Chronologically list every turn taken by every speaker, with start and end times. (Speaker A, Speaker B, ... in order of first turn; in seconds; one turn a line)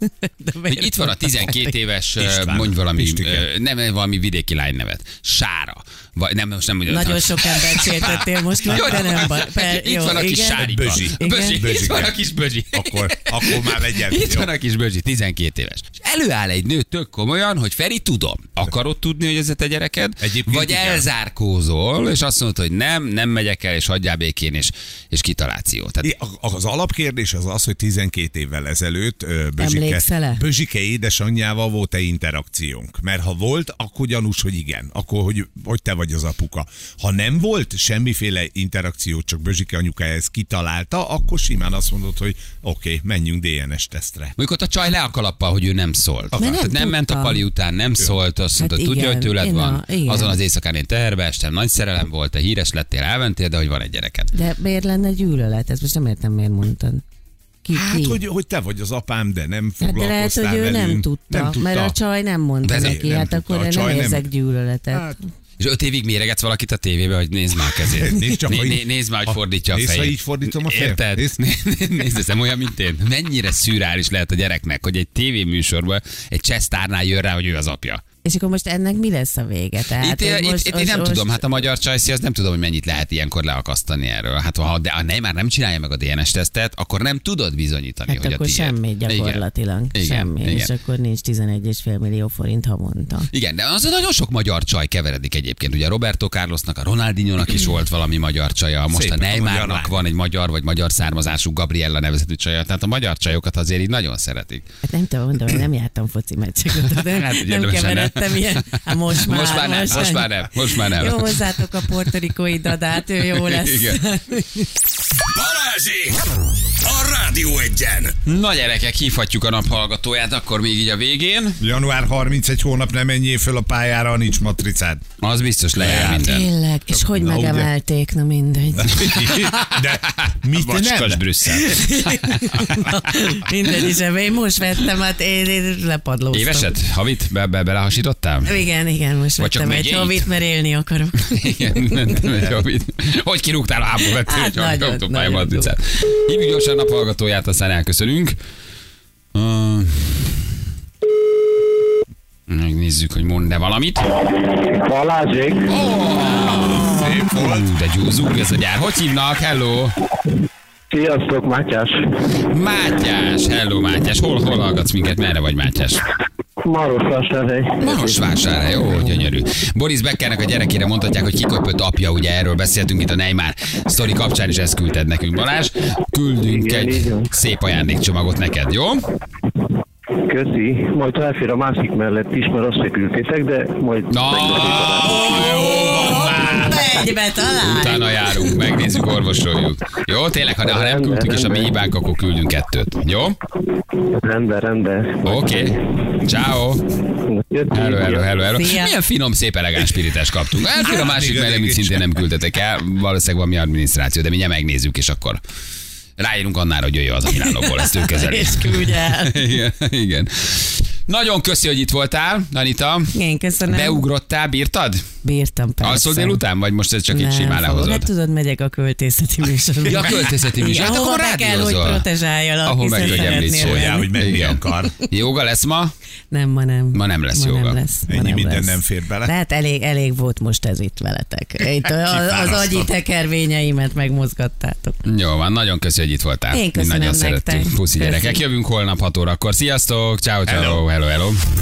Speaker A: 0.2-1.7
Speaker B: 0.7-26.1
Speaker C: 2.2-3.5
Speaker A: 6.9-11.8
Speaker C: 10.5-12.2
Speaker C: 12.7-14.5
Speaker C: 20.2-21.1
Speaker C: 26.0-44.4
Speaker A: 29.6-30.4
Speaker B: 44.4-54.3
Speaker A: 46.4-47.4
Speaker A: 48.6-50.4
Speaker A: 54.3-57.0
Speaker A: 57.6-58.2
Speaker C: 57.7-62.0
Speaker A: 59.8-65.2
Speaker B: 62.7-63.0
Speaker C: 62.7-64.3
Speaker C: 64.9-65.2
Speaker B: 65.6-78.0
Speaker C: 67.8-71.4
Speaker A: 78.2-81.6
Speaker B: 80.0-89.4
Speaker A: 88.1-93.3
Speaker B: 89.9-90.7
Speaker B: 93.3-104.7
Speaker C: 98.9-99.9
Speaker A: 104.8-114.7
Speaker B: 106.9-111.4
Speaker B: 113.3-114.0
Speaker D: 115.3-116.3
Speaker D: 116.8-118.2
Speaker B: 118.3-121.6
Speaker C: 121.6-125.0
Speaker B: 125.2-126.5
Speaker C: 125.8-126.3
Speaker A: 126.0-129.2
Speaker C: 126.9-127.7
Speaker C: 128.8-131.6
Speaker B: 129.0-132.9
Speaker A: 131.7-136.7
Speaker B: 136.3-138.5
Speaker A: 138.5-142.2
Speaker B: 139.4-140.3
Speaker B: 141.3-148.4
Speaker A: 144.2-145.8
Speaker B: 149.3-150.5
Speaker B: 152.5-154.1
Speaker E: 154.5-155.8
Speaker B: 155.7-160.0
Speaker C: 156.3-157.7
Speaker E: 160.9-162.0
Speaker B: 162.5-166.0
Speaker E: 166.6-168.3
Speaker B: 167.8-179.0
Speaker E: 176.5-177.3
Speaker E: 180.2-185.7
Speaker B: 184.1-186.6
Speaker A: 185.0-188.1
Speaker C: 185.2-186.8
Speaker B: 187.6-193.4
Speaker E: 190.7-191.7
Speaker E: 194.2-195.7
Speaker B: 195.2-196.9
Speaker E: 197.3-198.5
Speaker B: 197.7-205.4
Speaker A: 198.4-199.0
Speaker C: 200.7-202.3
Speaker B: 206.2-213.2
Speaker A: 207.4-209.6
Speaker A: 213.1-214.0
Speaker B: 213.7-215.1
Speaker A: 215.2-216.4
Speaker B: 215.8-218.1
Speaker A: 217.1-224.4
Speaker B: 219.8-222.1
Speaker B: 222.6-225.9
Speaker C: 223.0-224.9
Speaker A: 226.3-235.0
Speaker B: 226.9-227.8
Speaker C: 228.1-229.3
Speaker C: 232.1-232.8
Speaker B: 235.1-241.4
Speaker A: 236.5-238.4
Speaker C: 240.5-240.8